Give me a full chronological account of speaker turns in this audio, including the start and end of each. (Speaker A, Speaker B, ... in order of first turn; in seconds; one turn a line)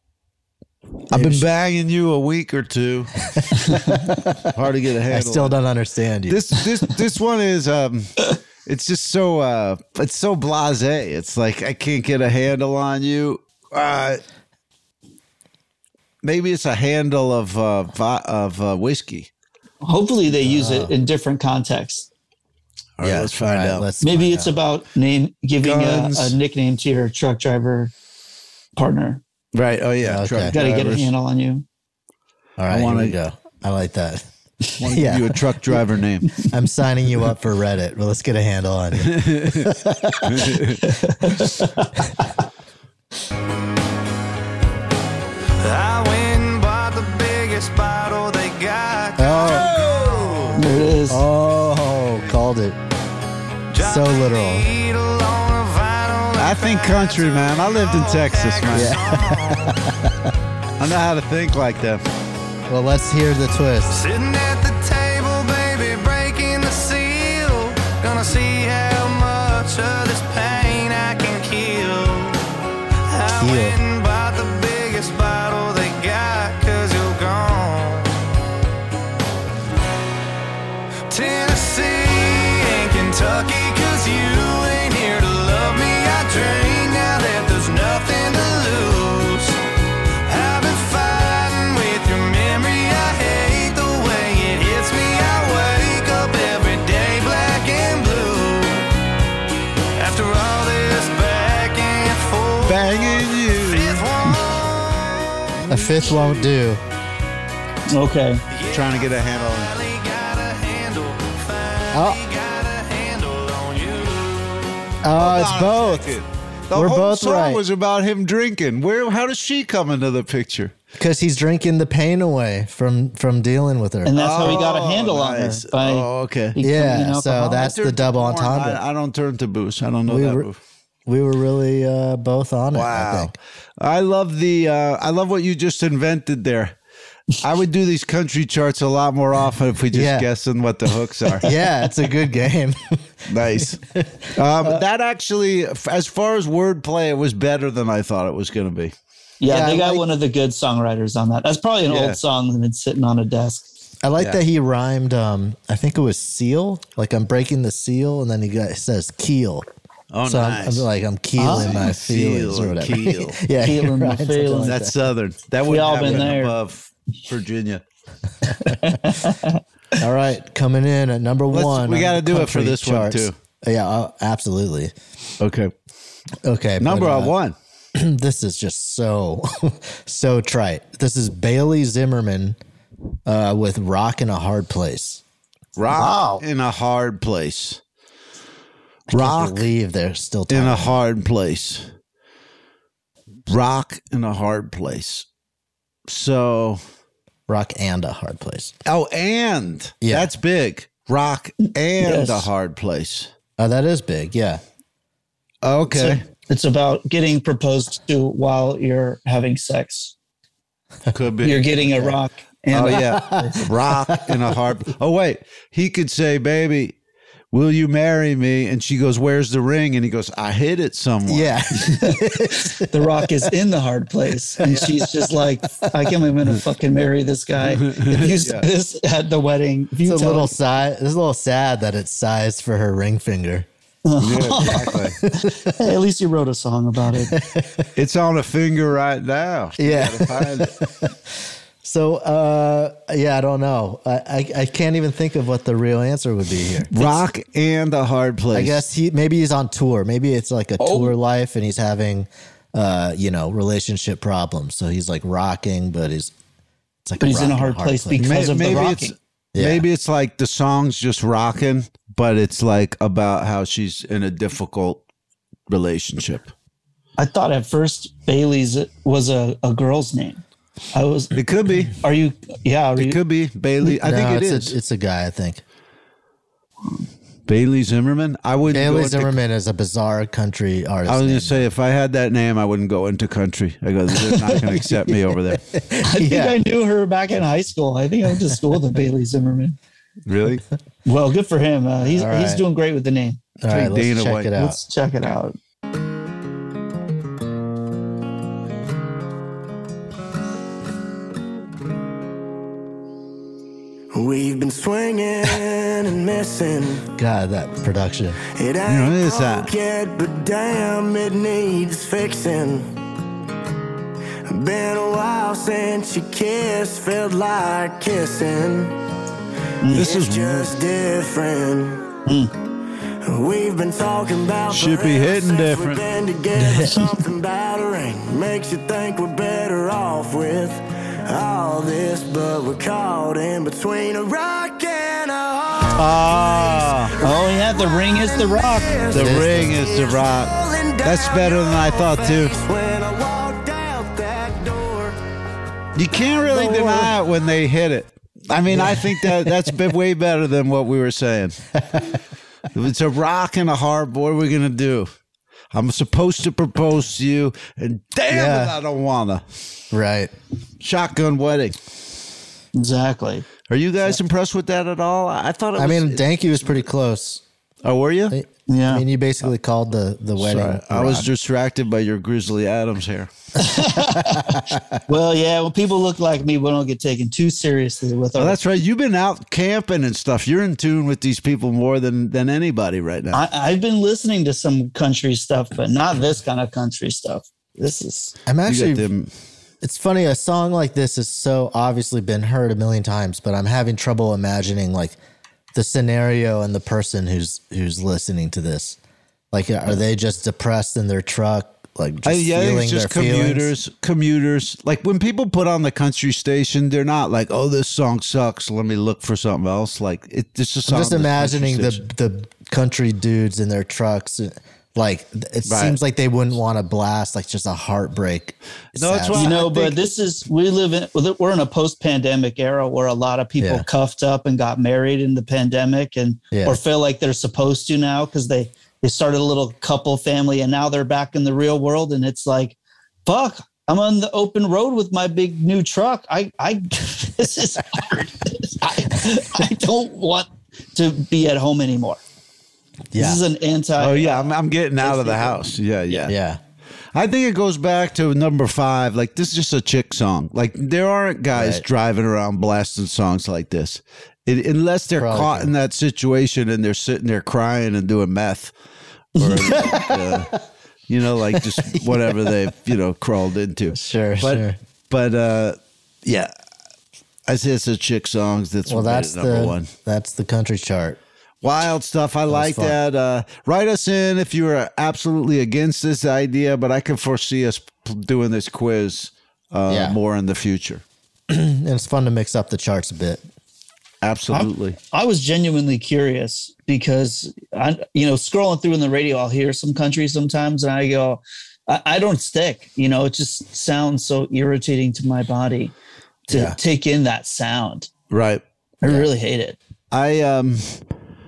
Speaker A: 1.1-3.2
Speaker B: 1.1-1.5
Speaker B: 3.4-4.6
Speaker A: 4.5-5.6
Speaker B: 5.1-6.4
Speaker A: 6.3-14.2
Speaker A: 16.2-19.3
Speaker C: 19.8-22.1
Speaker B: 20.4-20.9
Speaker A: 23.0-23.9
Speaker B: 23.0-24.6
Speaker C: 24.0-27.9
Speaker A: 25.6-26.4
Speaker C: 28.8-29.2
Speaker A: 29.5-31.1
Speaker B: 30.0-30.6
Speaker C: 30.5-31.6
Speaker B: 32.6-34.2
Speaker A: 32.7-33.2
Speaker A: 34.8-36.4
Speaker B: 34.8-35.4
Speaker B: 36.5-40.6
Speaker A: 39.0-39.7
Speaker A: 40.2-40.8
Speaker C: 40.8-41.9
Speaker D: 45.6-50.6
Speaker B: 49.2-49.9
Speaker C: 50.6-51.2
Speaker B: 51.1-52.8
Speaker D: 53.7-59.8
Speaker B: 53.8-54.7
Speaker A: 56.4-59.0
Speaker B: 58.7-60.3
Speaker A: 60.8-62.0
Speaker B: 62.7-64.0
Speaker D: 63.9-72.4
Speaker D: 73.1-78.3
Speaker B: 73.3-73.8
Speaker D: 81.1-89.6
Speaker D: 90.2-98.9
Speaker D: 100.0-103.0
Speaker A: 102.6-104.1
Speaker D: 103.7-106.4
Speaker B: 105.7-106.8
Speaker C: 107.9-108.4
Speaker D: 108.5-114.8
Speaker A: 108.7-109.7
Speaker B: 111.9-112.2
Speaker B: 115.0-116.2
Speaker A: 115.2-120.7
Speaker B: 116.7-117.6
Speaker B: 121.0-124.7
Speaker C: 124.0-127.7
Speaker A: 124.2-126.6
Speaker B: 126.6-128.8
Speaker A: 127.5-130.6
Speaker B: 130.1-130.5
Speaker B: 131.1-133.3
Speaker A: 132.7-136.8
Speaker A: 137.4-141.5
Speaker B: 139.9-140.3
Speaker B: 141.4-143.0
Speaker A: 143.3-143.8
Speaker B: 143.6-144.8
Speaker A: 144.3-148.9
Speaker C: 149.4-153.7
Speaker B: 149.5-150.0
Speaker A: 151.9-152.2
Speaker B: 154.0-159.7
Speaker A: 160.1-160.9
Speaker B: 160.2-165.0
Speaker C: 161.4-161.7
Speaker A: 161.5-163.4
Speaker C: 163.6-164.7
Speaker A: 164.6-167.8
Speaker C: 165.7-166.6
Speaker C: 168.6-169.6
Speaker B: 170.0-174.9
Speaker A: 171.5-173.4
Speaker A: 175.4-175.7
Speaker B: 176.4-177.3
Speaker A: 176.8-177.6
Speaker B: 177.9-182.6
Speaker B: 183.3-185.2
Speaker A: 185.8-187.8
Speaker C: 185.9-186.4
Speaker B: 189.1-190.9
Speaker A: 189.1-189.7
Speaker A: 190.5-191.9
Speaker A: 193.5-195.3
Speaker A: 196.1-196.8
Speaker B: 197.5-198.8
Speaker A: 198.9-203.3
Speaker B: 200.0-200.3
Speaker C: 202.0-202.5
Speaker B: 203.6-204.6
Speaker A: 205.6-206.2
Speaker C: 205.9-210.1
Speaker A: 211.1-211.7
Speaker C: 211.4-213.6
Speaker A: 212.7-217.0
Speaker B: 212.9-214.4
Speaker A: 217.5-221.5
Speaker B: 221.3-223.2
Speaker C: 221.8-230.5
Speaker B: 224.7-225.2
Speaker A: 227.7-228.7
Speaker B: 230.1-233.7
Speaker C: 234.1-237.3
Speaker A: 234.2-235.2
Speaker B: 235.4-235.7
Speaker B: 237.3-237.9
Speaker A: 238.0-240.8
Speaker B: 239.8-241.1
Speaker B: 241.8-247.1
Speaker A: 246.9-248.8
Speaker B: 248.5-256.3
Speaker C: 250.8-251.1
Speaker B: 257.1-258.9
Speaker C: 257.2-259.1
Speaker A: 258.2-265.0
Speaker B: 259.6-259.9
Speaker A: 265.7-266.5
Speaker C: 267.2-270.4
Speaker C: 270.9-271.3
Speaker A: 271.3-271.9
Speaker C: 271.9-273.2
Speaker A: 273.0-274.8
Speaker B: 273.8-275.6
Speaker A: 277.5-279.4
Speaker B: 278.7-281.7
Speaker A: 281.1-285.6
Speaker B: 284.3-284.9
Speaker B: 285.5-286.6
Speaker C: 286.1-289.8
Speaker A: 290.3-290.6
Speaker C: 291.1-293.4
Speaker B: 292.1-292.6
Speaker B: 293.6-294.8
Speaker A: 293.7-294.5
Speaker C: 294.6-295.6
Speaker E: 304.1-307.1
Speaker B: 307.2-308.4
Speaker E: 308.5-312.9
Speaker A: 308.9-309.7
Speaker E: 314.5-318.9
Speaker C: 319.8-320.1
Speaker E: 319.9-322.1
Speaker A: 319.9-320.7
Speaker C: 322.3-322.5
Speaker E: 323.3-345.2
Speaker A: 324.7-326.0
Speaker B: 326.6-326.9
Speaker A: 335.9-337.2
Speaker C: 337.2-339.0
Speaker A: 339.1-342.6
Speaker B: 339.1-339.9
Speaker A: 346.0-351.6
Speaker B: 346.5-347.1
Speaker B: 348.7-349.7
Speaker A: 352.7-355.1
Speaker A: 355.7-359.4
Speaker B: 358.3-358.8
Speaker B: 359.9-360.3
Speaker A: 360.8-361.8
Speaker C: 362.8-363.5
Speaker A: 363.7-366.3
Speaker B: 365.8-367.4
Speaker A: 367.8-368.4
Speaker B: 368.3-371.3
Speaker C: 368.7-369.1
Speaker A: 370.4-373.3
Speaker C: 373.6-378.6
Speaker A: 378.4-383.4
Speaker C: 383.3-388.4
Speaker B: 388.5-389.1
Speaker A: 388.7-389.3
Speaker B: 389.8-395.2
Speaker B: 395.7-399.0
Speaker B: 399.5-403.7
Speaker A: 402.2-412.0
Speaker B: 410.9-419.6
Speaker A: 415.7-416.0
Speaker A: 418.9-420.0
Speaker C: 419.4-442.2
Speaker B: 423.6-423.9
Speaker B: 426.5-426.8
Speaker B: 443.1-443.4
Speaker C: 443.2-446.3
Speaker A: 444.0-446.3
Speaker B: 446.3-446.6
Speaker A: 447.1-458.7
Speaker B: 451.5-451.9
Speaker B: 455.2-455.7
Speaker A: 459.4-460.5
Speaker B: 459.6-460.5
Speaker A: 461.1-466.5
Speaker B: 461.5-462.6
Speaker B: 463.9-464.8
Speaker A: 467.5-469.9
Speaker B: 468.9-471.2
Speaker A: 471.6-481.0
Speaker B: 472.5-473.0
Speaker B: 479.9-480.2
Speaker B: 481.5-483.4
Speaker A: 484.2-485.0
Speaker C: 484.5-495.9
Speaker C: 496.5-498.1
Speaker B: 496.5-496.8
Speaker A: 498.3-498.6
Speaker C: 499.0-499.8
Speaker A: 500.1-501.0